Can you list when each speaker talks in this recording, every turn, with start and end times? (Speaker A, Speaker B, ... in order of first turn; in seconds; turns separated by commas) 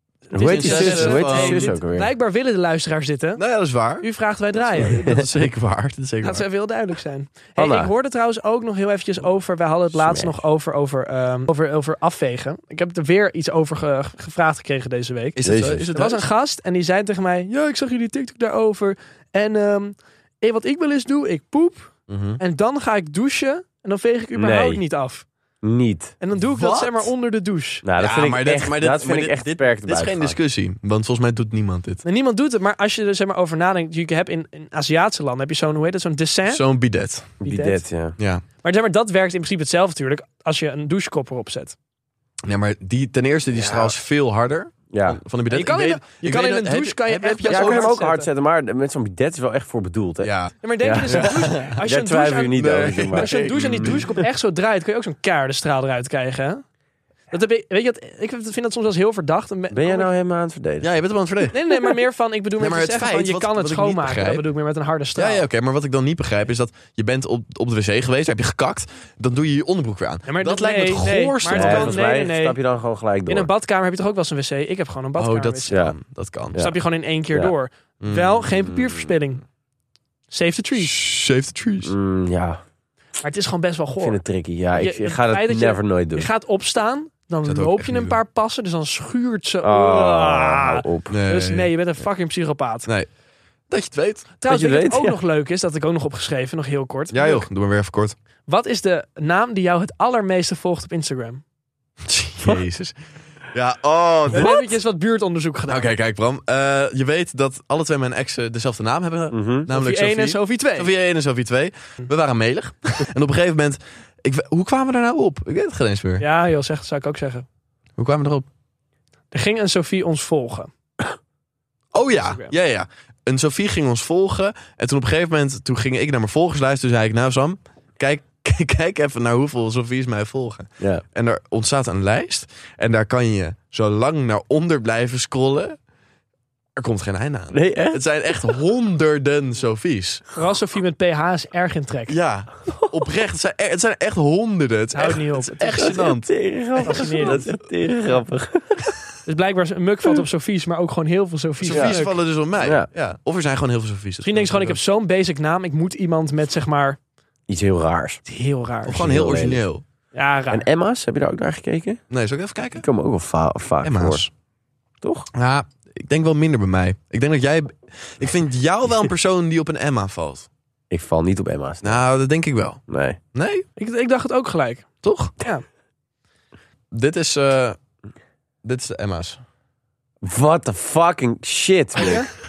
Speaker A: 0.3-3.4, Speaker B: 0.3-2.1, Speaker C: 0.5-1.8, Speaker C: 3.4-4.1, Speaker A: 4.0-5.3, Speaker B: 4.8-5.3, Speaker C: 5.0-6.5, Speaker A: 6.2-15.4, Speaker B: 7.6-7.9, Speaker B: 9.9-10.4, Speaker C: 15.4-16.3, Speaker B: 15.4-15.9, Speaker A: 15.9-25.3, Speaker C: 22.1-22.4, Speaker B: 24.4-24.8, Speaker B: 25.6-26.1, Speaker A: 26.2-27.9, Speaker C: 26.4-27.1, Speaker B: 27.8-30.4, Speaker C: 28.0-32.0, Speaker A: 32.0-36.6, Speaker C: 36.5-37.4, Speaker A: 37.4-37.8, Speaker B: 37.4-38.2, Speaker C: 38.2-38.4, Speaker A: 38.6-41.8, Speaker C: 42.5-47.9, Speaker B: 43.5-43.9, Speaker B: 44.9-45.2, Speaker A: 45.5-48.3, Speaker B: 47.5-54.0, Speaker C: 50.2-51.8, Speaker A: 50.6-56.6, Speaker C: 52.6-54.2, Speaker A: 57.3-60.1, Speaker B: 59.7-60.9, Speaker C: 60.8-61.6, Speaker A: 61.5-65.5, Speaker C: 62.6-64.5, Speaker C: 65.2-72.0, Speaker A: 70.3-72.6, Speaker B: 71.5-73.5, Speaker A: 73.3-75.8, Speaker C: 75.2-76.6, Speaker B: 75.7-76.0, Speaker A: 76.6-79.4, Speaker C: 78.0-78.7, Speaker A: 80.3-81.0, Speaker C: 80.8-81.9, Speaker B: 81.8-82.6, Speaker A: 83.2-84.2, Speaker B: 84.0-86.3, Speaker A: 84.7-92.9, Speaker C: 87.5-88.2, Speaker B: 89.6-91.1, Speaker C: 91.1-91.7, Speaker C: 93.7-94.3, Speaker A: 94.4-97.5, Speaker B: 94.5-95.2, Speaker C: 97.1-98.2, Speaker A: 98.5-101.4, Speaker C: 102.1-103.0, Speaker C: 103.5-104.7, Speaker A: 104.3-105.9, Speaker C: 105.7-116.3, Speaker B: 109.3-109.7, Speaker A: 109.7-110.9, Speaker A: 116.2-117.5, Speaker C: 118.0-118.5, Speaker A: 119.3-120.7, Speaker C: 121.9-135.8, Speaker A: 122.1-122.5, Speaker C: 136.8-140.2, Speaker B: 137.5-138.0, Speaker A: 140.3-142.2, Speaker C: 142.1-146.3, Speaker A: 144.9-146.0, Speaker B: 145.8-148.8, Speaker A: 146.8-147.5, Speaker C: 146.8-147.3, Speaker A: 149.3-152.2, Speaker C: 151.6-154.8, Speaker B: 151.7-152.0, Speaker B: 152.6-152.9, Speaker A: 154.2-157.0, Speaker B: 157.5-158.2, Speaker A: 158.3-159.0, Speaker C: 158.9-159.8, Speaker B: 158.9-159.6, Speaker A: 160.1-160.7, Speaker B: 160.5-162.0, Speaker C: 162.1-162.8, Speaker B: 162.8-164.3, Speaker C: 163.8-164.3, Speaker B: 165.0-165.3, Speaker C: 165.3-170.5, Speaker B: 170.9-172.0, Speaker C: 171.8-172.8, Speaker B: 172.9-173.2, Speaker C: 173.3-173.7, Speaker A: 173.8-174.9, Speaker C: 175.0-175.3, Speaker A: 175.4-175.6, Speaker C: 176.9-177.8, Speaker C: 178.6-179.4, Speaker B: 180.2-182.3, Speaker A: 182.0-182.3